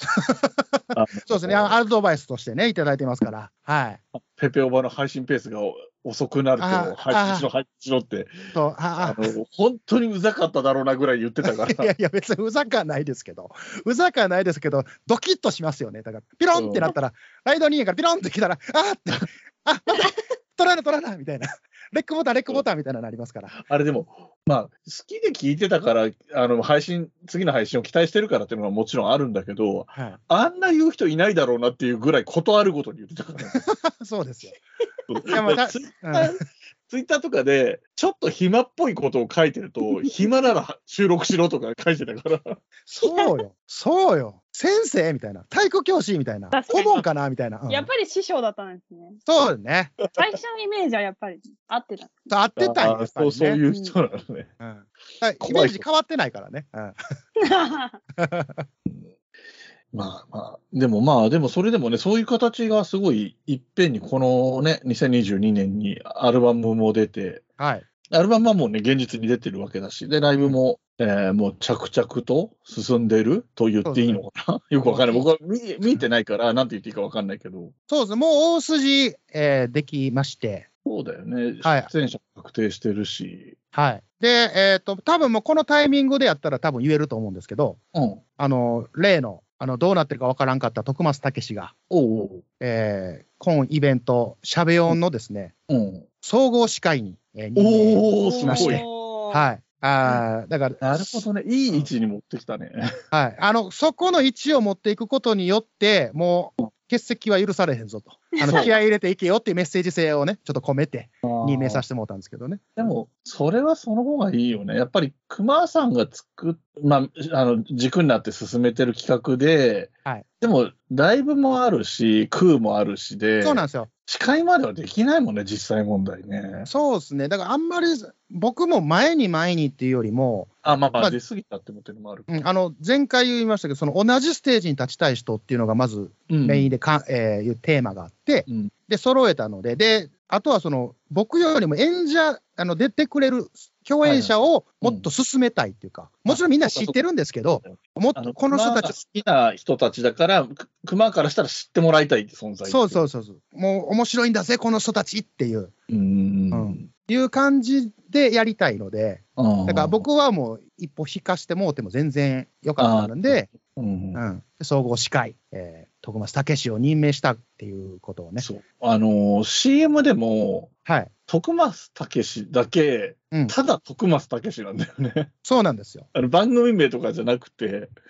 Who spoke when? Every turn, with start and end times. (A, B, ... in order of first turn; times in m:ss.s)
0:00.2-0:04.0 A
0:00.9-0:01.8 B
0:04.1-0:11.9 B
0:06.6-0:07.5 A
0:08.5-0:09.3 A
0:11.5-0:23.6 A
0:16.5-0:16.9 B
0:23.5-0:33.6 B
0:33.5-0:34.6 A
0:35.1-0:42.6 B
0:35.3-0:36.3 A
0:42.9-0:47.9 A
0:43.0-0:43.4 C
0:46.5-0:47.0 C
0:47.7-0:49.2 C
0:49.3-0:50.0 A
0:50.1-0:52.3 C
0:52.3-0:53.6 A
0:52.6-0:54.5 B
0:53.7-0:54.0 C
0:54.6-0:57.0 A
0:55.4-0:55.8 B
0:57.4-0:58.0 C
0:58.2-0:58.6 A
0:58.9-0:59.1 B
0:59.9-1:07.4 B
1:07.6-1:07.8 A
1:08.1-1:17.7 B
1:13.8-1:14.2 A
1:14.8-1:15.2 A
1:17.9-1:20.7 A
1:20.8-1:23.6 B
1:21.6-1:21.9 A
1:23.7-1:27.8 A
1:27.9-1:28.2 B
1:28.4-1:31.7 A
1:31.9-1:32.4 B
1:32.6-1:35.5 A
1:35.7-1:36.1 B
1:36.2-1:41.9 A
1:37.6-1:38.8 B
1:38.2-1:39.5 C
1:40.8-1:42.9 B
1:43.1-1:52.9 A
1:48.5-1:48.7 B
1:51.2-1:51.8 B
1:52.8-2:06.7 B
2:03.4-2:03.9 A
2:06.7-2:11.2 A
2:10.6-2:12.4 B
2:12.3-2:29.0 A
2:16.3-2:16.7 B
2:18.5-2:18.7 B
2:24.0-2:25.1 B
2:26.3-2:27.0 B
2:27.5-2:33.0 B
2:32.7-2:35.7 A
2:35.9-2:36.9 B
2:36.5-2:43.5 A
2:39.4-2:40.0 B
2:42.8-2:44.2 B
2:44.1-2:48.5 A
2:48.4-2:50.7 B
2:50.9-2:51.1 A
2:51.3-2:55.3 B
2:55.4-2:56.1 A
2:56.1-2:57.9 B